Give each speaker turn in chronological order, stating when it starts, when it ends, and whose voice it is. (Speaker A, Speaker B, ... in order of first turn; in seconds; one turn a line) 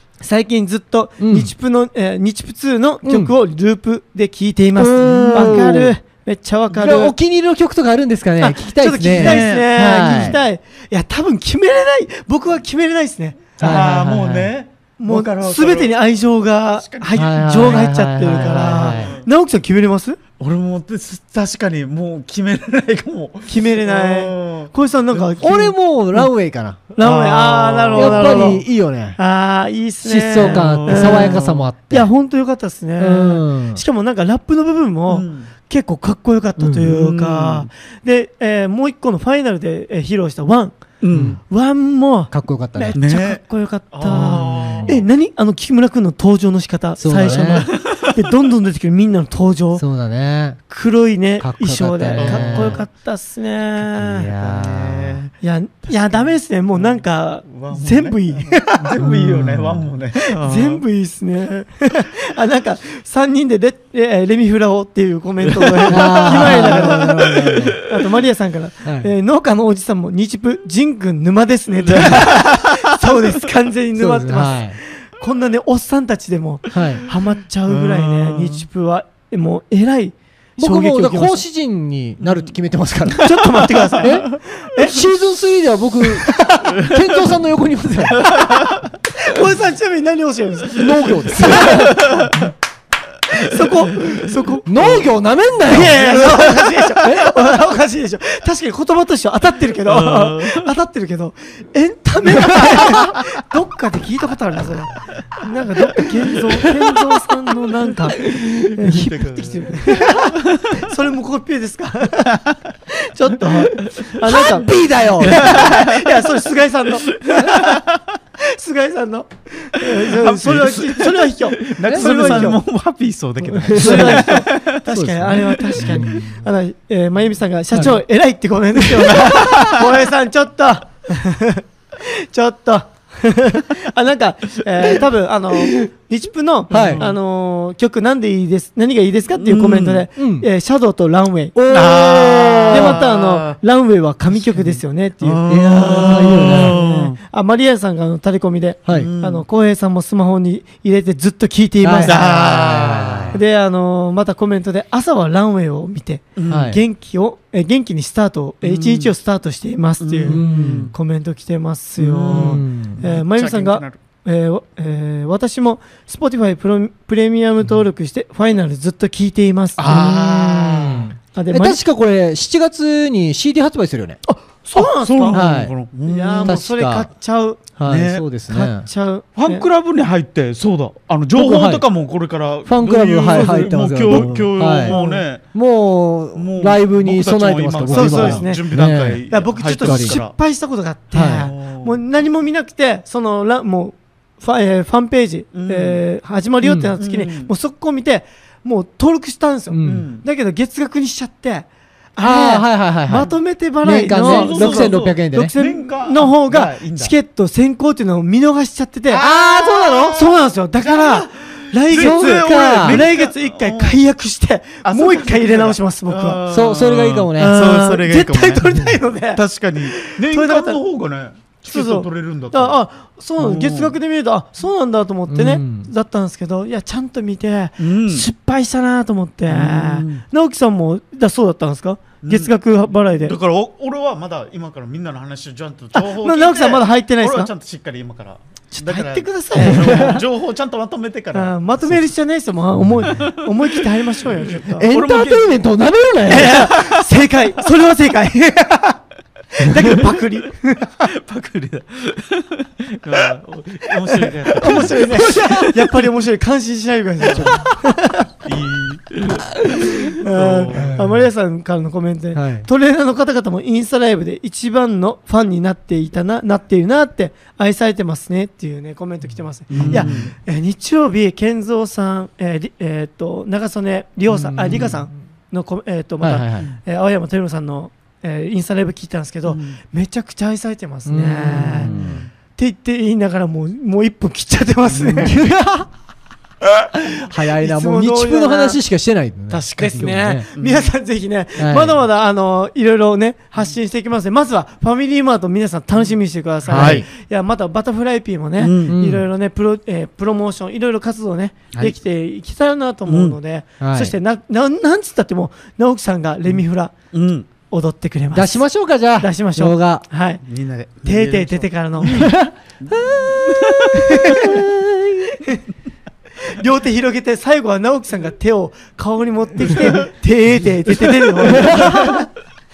Speaker A: 0.2-7.2
Speaker B: 1.2-1.5
Speaker B: 3.0-3.3
Speaker B: 4.8-6.0
Speaker C: 5.0-5.7
Speaker B: 6.8-10.4
Speaker A: 8.4-13.9
Speaker C: 9.1-10.4
Speaker B: 13.6-14.5
Speaker C: 13.6-16.0
Speaker A: 15.0-20.2
Speaker C: 16.8-19.3
Speaker B: 17.1-19.1
Speaker C: 20.4-25.2
Speaker A: 23.5-26.3
Speaker B: 25.4-26.9
Speaker A: 27.0-28.6
Speaker C: 27.0-28.6
Speaker B: 27.9-29.2
Speaker A: 29.2-40.8
Speaker B: 30.0-32.1
Speaker C: 30.4-31.6
Speaker B: 33.0-33.8
Speaker C: 35.1-35.5
Speaker B: 36.6-36.9
Speaker C: 36.9-37.7
Speaker C: 41.0-41.4
Speaker B: 41.1-41.4
Speaker A: 41.4-49.8
Speaker B: 42.3-43.0
Speaker C: 43.0-45.0
Speaker B: 44.1-45.0
Speaker B: 47.0-47.7
Speaker C: 47.1-48.2
Speaker B: 49.8-50.6
Speaker A: 50.7-54.3
Speaker B: 51.4-52.8
Speaker C: 52.2-52.8
Speaker B: 53.8-55.2
Speaker C: 54.4-55.3
Speaker A: 55.4-59.0
Speaker C: 55.9-60.8
Speaker B: 59.0-59.9
Speaker A: 60.2-67.3
Speaker C: 65.5-67.8
Speaker B: 65.9-67.8
Speaker A: 67.8-81.4
Speaker B: 68.8-69.1
Speaker C: 71.8-73.1
Speaker B: 74.0-74.8
Speaker B: 76.7-77.0
Speaker C: 77.7-78.7
Speaker B: 80.6-83.4
Speaker C: 82.2-82.5
Speaker A: 83.2-85.0
Speaker C: 83.2-84.3
Speaker B: 84.0-88.4
Speaker A: 86.3-86.6
Speaker C: 88.2-88.9
Speaker A: 89.2-91.5
Speaker B: 90.8-92.5
Speaker C: 91.7-92.5
Speaker A: 93.3-95.1
Speaker C: 93.5-94.2
Speaker B: 94.7-96.5
Speaker A: 95.7-112.4
Speaker B: 97.0-97.4
Speaker C: 99.9-100.7
Speaker C: 102.5-103.2
Speaker C: 106.0-106.7
Speaker C: 108.2-110.9
Speaker B: 108.4-109.1
Speaker A: 112.9-117.8
Speaker B: 114.2-115.8
Speaker C: 115.3-116.2
Speaker C: 117.2-118.0
Speaker A: 118.4-122.6
Speaker C: 119.8-124.8
Speaker B: 121.8-122.6
Speaker B: 123.4-126.4
Speaker A: 123.7-141.6
Speaker C: 125.5-126.0
Speaker B: 128.8-129.8
Speaker C: 129.1-129.9
Speaker B: 136.7-137.1
Speaker C: 136.7-137.1
Speaker C: 139.4-140.1
Speaker B: 140.2-140.5
Speaker B: 141.6-143.0
Speaker C: 141.7-143.6
Speaker A: 142.7-152.5
Speaker C: 144.5-147.2
Speaker B: 145.5-146.8
Speaker B: 148.9-149.1
Speaker C: 148.9-149.4
Speaker B: 151.8-153.4
Speaker C: 152.0-153.4
Speaker A: 153.3-169.8
Speaker C: 156.4-156.7
Speaker B: 156.5-156.8
Speaker C: 158.6-159.1
Speaker C: 160.0-160.9
Speaker B: 160.3-160.9
Speaker C: 162.0-164.0
Speaker B: 162.3-163.0
Speaker C: 169.8-171.1
Speaker B: 169.9-174.2
Speaker A: 171.3-171.8
Speaker A: 174.2-175.4
Speaker C: 174.8-176.6
Speaker B: 175.3-175.7
Speaker A: 176.1-177.6
Speaker B: 176.5-177.1
Speaker B: 177.8-178.9
Speaker C: 177.9-178.2
Speaker A: 178.5-179.7
Speaker C: 179.4-185.5
Speaker B: 181.3-181.9
Speaker B: 182.7-190.2
Speaker A: 184.8-185.2
Speaker C: 186.3-190.3
Speaker A: 187.9-188.7
Speaker A: 189.3-216.4
Speaker B: 191.1-191.5
Speaker C: 191.4-192.0
Speaker C: 195.5-196.0
Speaker B: 196.6-196.9
Speaker C: 197.0-197.5
Speaker B: 199.7-200.1
Speaker C: 199.8-200.2
Speaker B: 202.2-203.3
Speaker B: 203.8-205.5
Speaker C: 204.1-207.1
Speaker C: 209.1-214.0
Speaker B: 209.2-210.2
Speaker B: 211.9-213.0
Speaker C: 214.8-218.7
Speaker B: 216.5-217.7
Speaker A: 217.4-220.8
Speaker C: 219.3-222.8
Speaker A: 221.7-233.3
Speaker C: 223.4-223.9
Speaker B: 225.3-225.9
Speaker C: 227.8-228.3
Speaker C: 229.5-230.2
Speaker C: 232.2-232.5
Speaker C: 233.2-242.1
Speaker A: 235.9-237.5
Speaker A: 238.7-240.2
Speaker B: 239.6-240.2
Speaker A: 241.3-244.9
Speaker B: 242.8-243.3
Speaker C: 243.0-245.6
Speaker B: 244.8-246.7
Speaker A: 246.3-249.0
Speaker C: 246.4-247.1
Speaker A: 249.5-251.1
Speaker C: 249.8-250.1
Speaker C: 251.0-256.0
Speaker A: 254.1-258.3
Speaker C: 257.2-257.7
Speaker C: 258.4-261.1
Speaker A: 259.4-281.9
Speaker B: 260.7-261.2
Speaker B: 262.3-262.7
Speaker C: 269.7-270.3
Speaker B: 269.8-270.2
Speaker B: 274.3-275.1
Speaker B: 276.2-276.8
Speaker C: 279.5-279.8
Speaker B: 281.1-282.3
Speaker C: 281.5-282.3
Speaker A: 282.6-285.5
Speaker C: 284.9-285.4
Speaker B: 285.3-285.9
Speaker B: 286.9-290.5
Speaker A: 287.3-288.8
Speaker C: 289.5-290.9
Speaker A: 289.8-306.9
Speaker B: 291.6-292.0
Speaker B: 296.7-297.1
Speaker C: 296.7-297.1
Speaker C: 298.6-298.9
Speaker B: 298.9-299.2
Speaker C: 303.1-303.4
Speaker B: 303.8-304.1
Speaker C: 307.1-307.5
Speaker A: 307.7-308.6
Speaker B: 308.3-310.1
Speaker A: 309.2-310.4
Speaker C: 310.4-314.3
Speaker A: 311.1-312.4
Speaker B: 312.2-315.4
Speaker A: 313.9-314.6
Speaker A: 315.4-315.6
Speaker A: 316.4-322.3
Speaker C: 321.5-322.1
Speaker B: 321.5-322.2